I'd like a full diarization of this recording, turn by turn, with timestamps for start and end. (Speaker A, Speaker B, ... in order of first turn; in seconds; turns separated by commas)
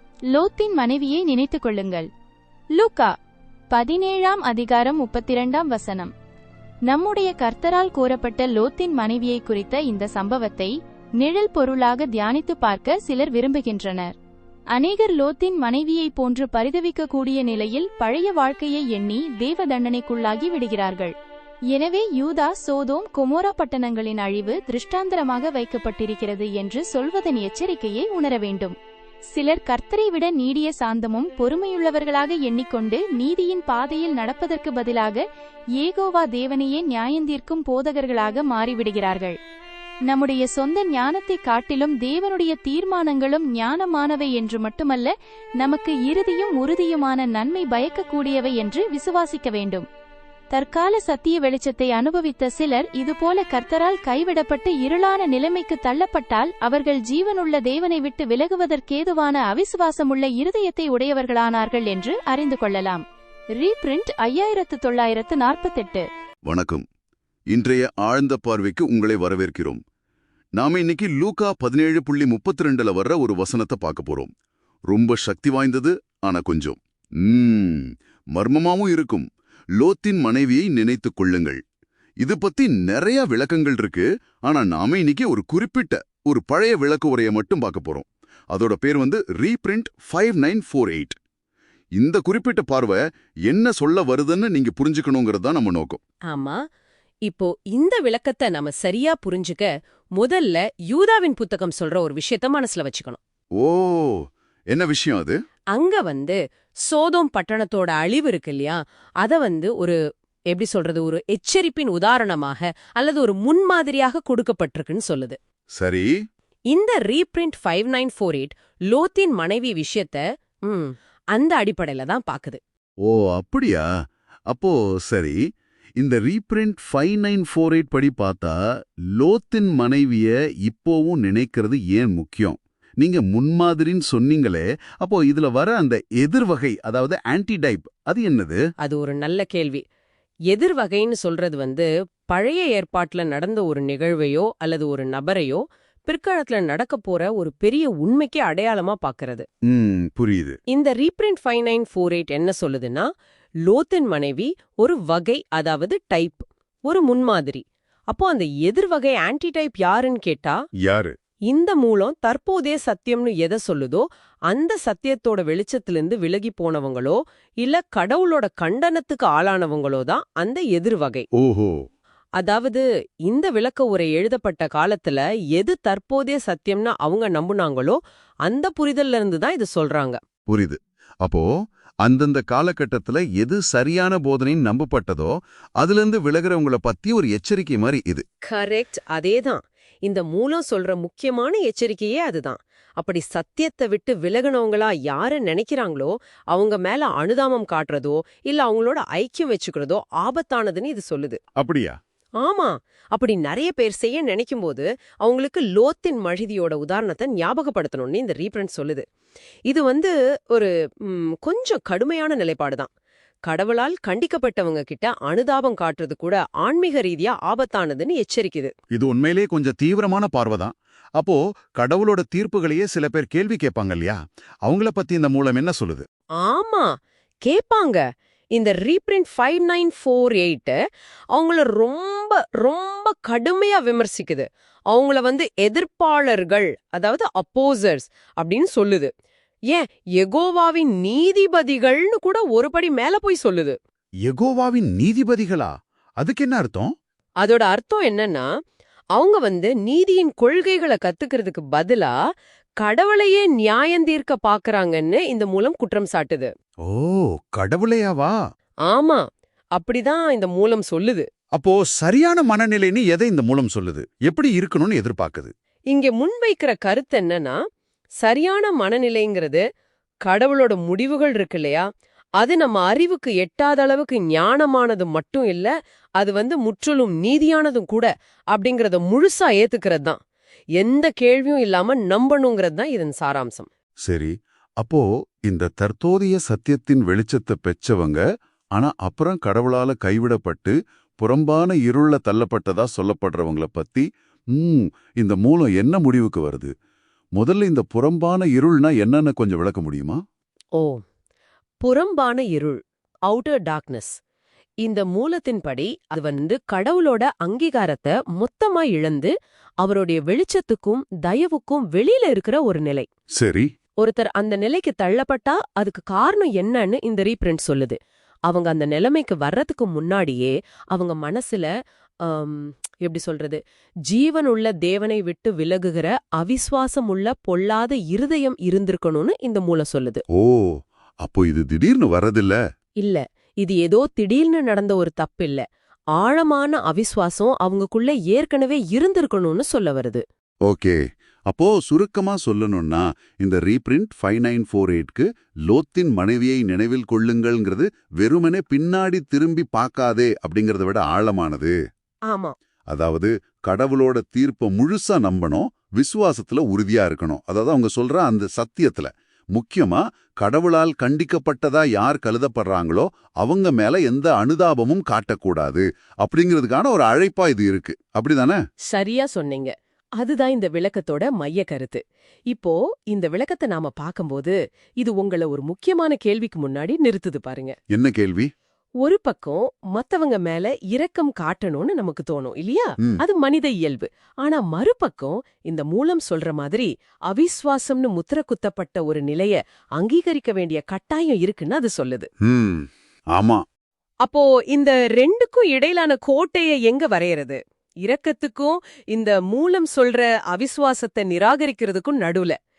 Speaker A: 0.3-2.1, Speaker A: 2.7-3.1, Speaker A: 3.7-6.1, Speaker A: 6.9-14.1, Speaker A: 14.7-21.1, Speaker A: 21.7-28.8, Speaker A: 29.3-35.2, Speaker A: 35.8-39.4, Speaker A: 40.1-49.9, Speaker A: 50.5-63.0, Speaker A: 63.6-66.1, Speaker B: 66.5-66.8, Speaker B: 67.5-69.8, Speaker B: 70.6-74.3, Speaker B: 74.9-79.2, Speaker B: 79.8-81.6, Speaker B: 82.2-91.2, Speaker B: 92.0-96.0, Speaker C: 96.3-96.6, Speaker C: 97.3-103.2, Speaker B: 103.6-105.4, Speaker C: 105.7-110.0, Speaker C: 110.5-115.4, Speaker B: 115.8-116.1, Speaker C: 116.7-122.6, Speaker B: 123.0-123.8, Speaker B: 124.5-125.4, Speaker B: 126.0-128.5, Speaker B: 129.2-138.6, Speaker C: 138.8-139.8, Speaker C: 140.5-149.4, Speaker B: 149.7-150.6, Speaker C: 150.7-153.1, Speaker C: 153.7-160.6, Speaker B: 160.8-161.1, Speaker C: 161.5-171.2, Speaker B: 171.3-171.7, Speaker C: 172.4-180.2, Speaker B: 180.5-181.5, Speaker B: 182.0-188.2, Speaker C: 188.4-201.4, Speaker B: 201.6-201.9, Speaker C: 202.4-209.0, Speaker C: 209.7-212.9, Speaker C: 213.5-218.7, Speaker B: 218.9-226.1, Speaker C: 226.4-226.9, Speaker C: 227.4-228.0, Speaker C: 228.5-230.8, Speaker C: 231.3-239.1, Speaker C: 239.7-243.8, Speaker B: 244.2-246.9, Speaker C: 247.4-248.5, Speaker C: 249.1-252.1, Speaker C: 252.8-256.5, Speaker B: 256.8-258.4, Speaker C: 258.9-259.2, Speaker C: 259.8-261.2, Speaker B: 261.5-265.5, Speaker C: 265.9-267.6, Speaker C: 268.2-269.6, Speaker C: 270.2-271.8, Speaker C: 272.4-280.2, Speaker C: 280.8-283.7, Speaker B: 284.0-288.2, Speaker B: 288.8-296.7, Speaker B: 297.4-300.2, Speaker C: 301.8-304.1, Speaker C: 304.8-313.1, Speaker B: 313.4-313.7, Speaker C: 314.0-318.0, Speaker C: 318.5-321.7, Speaker C: 322.2-330.2, Speaker B: 330.3-330.7, Speaker B: 331.2-332.6, Speaker C: 333.0-335.6, Speaker C: 336.2-340.2, Speaker B: 340.7-351.8, Speaker C: 352.3-352.5, Speaker B: 352.9-368.6, Speaker C: 368.9-377.7, Speaker B: 377.9-378.5, Speaker C: 379.0-392.3, Speaker B: 392.4-393.6, Speaker C: 394.2-402.6